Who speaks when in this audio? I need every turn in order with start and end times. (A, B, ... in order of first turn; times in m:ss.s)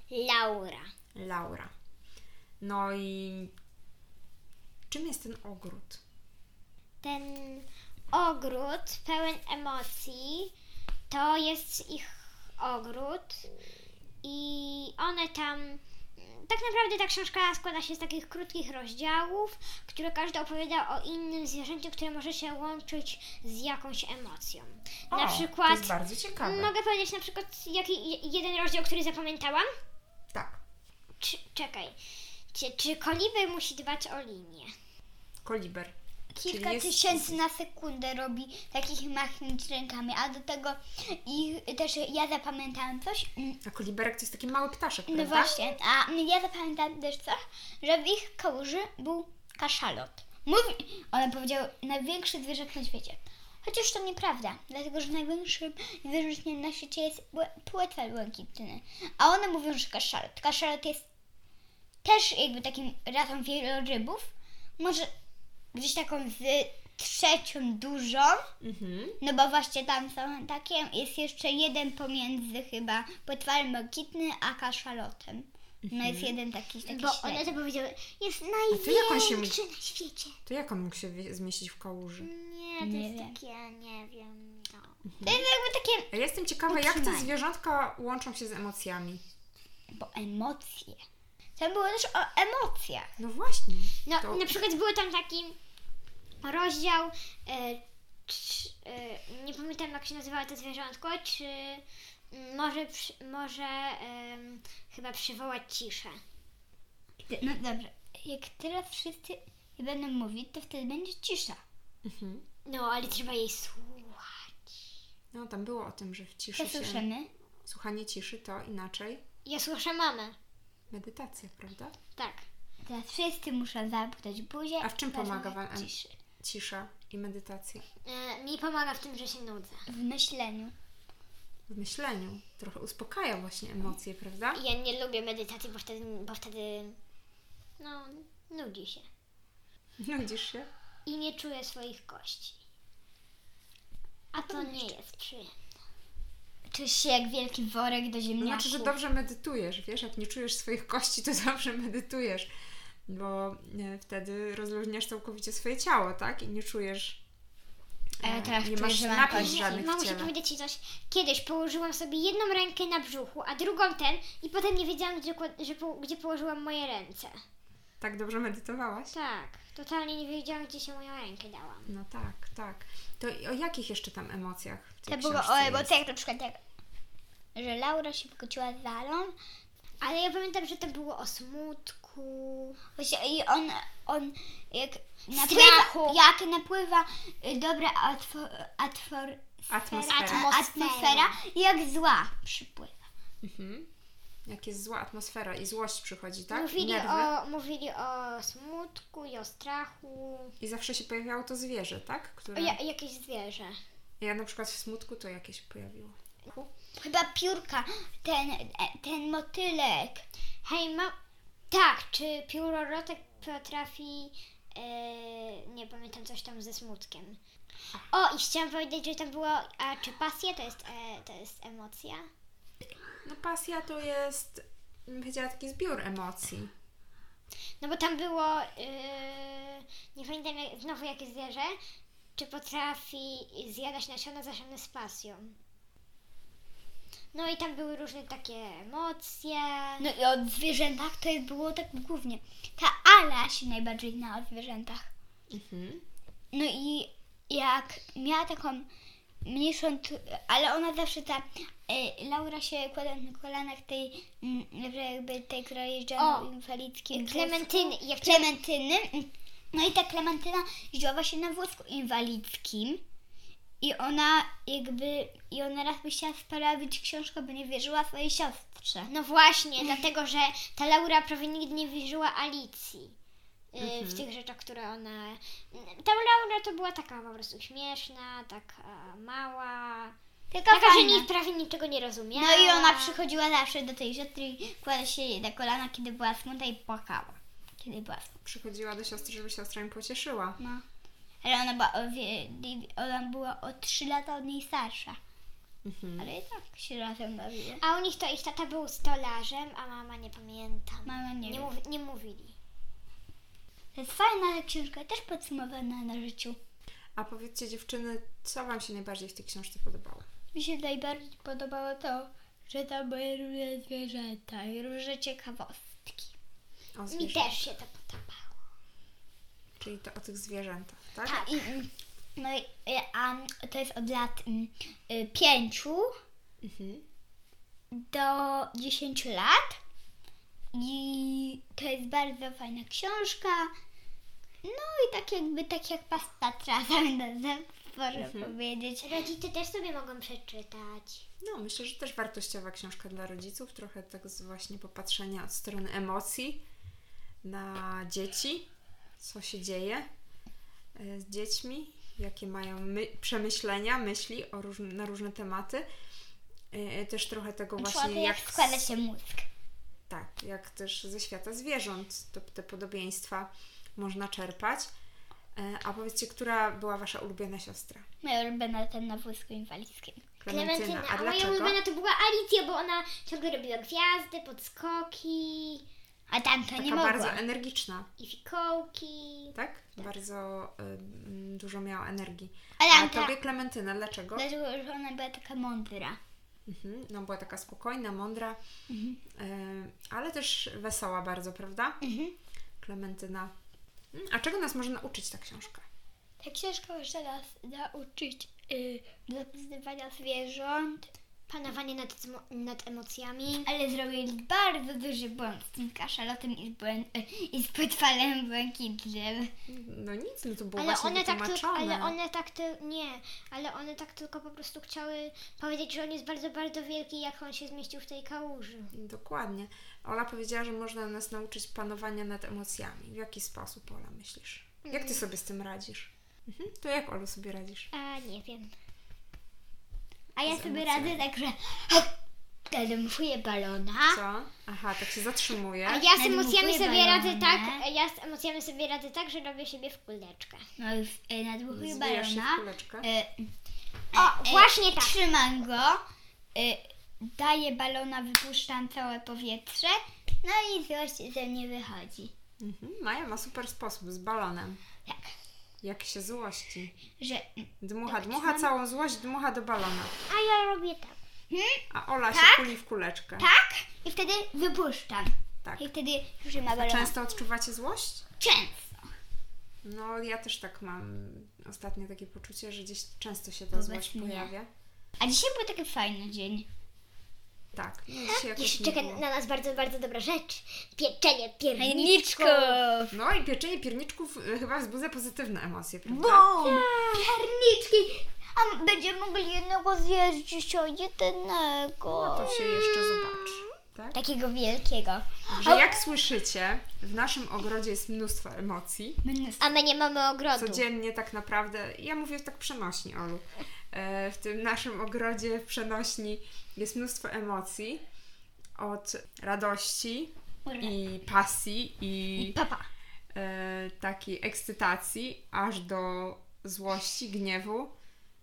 0:00.1-0:00.9 A
0:01.1-0:01.7 B
0:02.6-0:03.5 B
0:04.9-0:06.0 B
0:07.0-0:10.5 A
0:11.1-0:13.5 A
0:14.2-0:29.7 A
0:25.1-0:26.7 B
0:30.3-0:30.6 B
0:31.2-0:32.0 A
0:32.5-0:34.7 A
0:35.4-0:37.4 B
0:36.3-0:43.6 C
0:43.6-0:45.6 B
0:45.1-1:01.0 C
1:02.0-1:05.1 C
1:05.7-1:08.4 C
1:08.6-1:09.2 B
1:09.2-1:17.5 C
1:15.8-1:16.3 B
1:16.8-1:20.4 A
1:18.7-1:19.6 B
1:20.4-1:22.3 B
1:22.2-1:24.9 A
1:22.8-1:23.4 C
1:25.0-1:25.4 B
1:25.2-1:26.1 C
1:26.1-1:29.2 B
1:26.7-1:27.3 C
1:29.9-1:31.0 C
1:31.6-1:33.1 C
1:33.2-1:34.6 B
1:34.0-1:35.6 A
1:36.4-1:46.2 A
1:47.3-1:51.6 C
1:52.0-1:52.4 B
1:52.6-1:54.6 A
1:55.3-1:57.0 B
1:56.5-1:57.3 C
1:57.6-1:59.2 B
1:59.4-2:00.4 A
2:00.9-2:02.0 B
2:02.2-2:02.4 A
2:02.8-2:06.1 C
2:04.8-2:07.8 B
2:08.0-2:09.8 A
2:09.9-2:10.7 C
2:11.7-2:14.6 B
2:14.5-2:17.0 A
2:17.8-2:19.0 A
2:20.0-2:20.7 B
2:21.0-2:22.6 A
2:24.3-2:25.5 A
2:24.5-2:24.9 C
2:26.7-2:29.0 C
2:28.4-2:32.5 B
2:33.1-2:37.2 B
2:38.2-2:39.9 C
2:38.2-2:40.3 B
2:39.3-2:47.4 A
2:48.0-2:49.1 B
2:49.1-2:51.9 A
2:51.9-2:55.9 B
2:55.1-2:56.6 C
2:57.6-2:59.3 C
3:00.0-3:02.8 A
3:03.0-3:09.4 C
3:05.3-3:06.2 A
3:09.7-3:10.5 B
3:09.9-3:11.4 A
3:10.0-3:13.1 C
3:13.4-3:13.9 B
3:14.4-3:17.3 B
3:16.5-3:20.5 A
3:20.6-3:22.8 B
3:22.5-3:23.8 A
3:24.2-3:26.7 B
3:27.0-3:30.2 C
3:30.6-3:31.1 A
3:31.7-3:37.4 A
3:38.1-3:42.2 A
3:43.2-3:46.7 B
3:47.8-3:51.8 A
3:52.4-3:55.6 A
3:57.3-4:00.0 A
4:00.0-4:05.1 C
4:05.5-4:06.0 B
4:06.5-4:08.9 C
4:09.4-4:23.0 C
4:16.2-4:16.5 A
4:17.1-4:18.5 A
4:23.8-4:29.1 C
4:29.1-4:33.1 A
4:33.7-4:40.2 A
4:33.8-4:34.2 B
4:40.5-4:41.3 C
4:40.7-4:43.2 A
4:42.4-4:48.3 C
4:48.4-4:50.6 B
4:50.6-4:50.8 C
4:51.4-4:55.2 C
4:55.8-4:56.3 B
4:56.2-4:57.8 C
4:57.8-5:02.5 A
5:01.0-5:01.7 C
5:03.9-5:06.6 C
5:07.2-5:10.2 B
5:10.5-5:16.3 C
5:16.9-5:17.6 B
5:17.1-5:18.5 A
5:19.8-5:21.5 B
5:21.2-5:26.1 C
5:26.6-5:27.0 B
5:27.9-5:29.8 C
5:30.7-5:33.7 C
5:34.6-5:39.2 C
5:38.1-5:38.5 B
5:39.0-5:41.2 A
5:41.4-5:46.6 B
5:47.4-5:48.7 B
5:49.2-5:50.1 B
5:51.0-5:55.9 B
5:56.7-5:58.8 B
5:57.8-5:59.5 C
6:00.1-6:04.9 B
6:05.6-6:08.0 B
6:08.2-6:10.2 C
6:10.4-6:11.8 B
6:10.5-6:15.8 A
6:16.3-6:17.4 C
6:16.7-6:18.1 B
6:18.2-6:20.1 A
6:19.5-6:24.5 B
6:22.8-6:23.3 C
6:24.4-6:26.2 C
6:26.6-6:28.6 B
6:28.9-6:29.2 C
6:29.4-6:32.0 B
6:32.0-6:32.3 C
6:32.8-6:33.5 B
6:34.1-6:35.8 B
6:36.4-6:41.1 C
6:41.5-6:43.7 A
6:43.6-6:49.5 C
6:49.7-6:52.2 B
6:50.8-6:58.9 A
6:58.9-7:07.9 B
7:04.8-7:05.2 A
7:07.9-7:08.7 A
7:10.4-7:12.1 C
7:10.4-7:11.2 B
7:12.7-7:14.2 C
7:14.1-7:16.0 B
7:15.8-7:20.6 A
7:16.1-7:17.8 C
7:20.8-7:23.5 C
7:21.7-7:23.1 B
7:24.1-7:26.0 C
7:24.1-7:25.2 A
7:26.5-7:32.3 C
7:32.6-7:34.8 B
7:35.8-7:36.9 B
7:37.2-7:38.7 C
7:37.8-7:40.1 B
7:40.3-7:41.2 A
7:41.5-7:42.7 C
7:41.9-7:43.5 B
7:43.4-7:47.1 C
7:45.6-7:45.9 B
7:46.7-7:48.2 B
7:48.4-7:49.0 C
7:49.8-7:54.7 B
7:53.7-7:54.5 C
7:55.2-7:56.7 C
7:57.7-7:59.2 B
7:58.2-8:02.8 A
8:01.7-8:03.2 C
8:03.1-8:06.5 B
8:06.1-8:12.7 C
8:06.6-8:07.3 A
8:12.1-8:14.2 B
8:14.1-8:16.0 C
8:15.5-8:19.2 B
8:19.2-8:19.7 C
8:19.6-8:20.8 A
8:20.5-8:28.0 B
8:28.8-8:32.6 B
8:30.6-8:30.9 C
8:32.4-8:32.9 C
8:33.3-8:37.9 B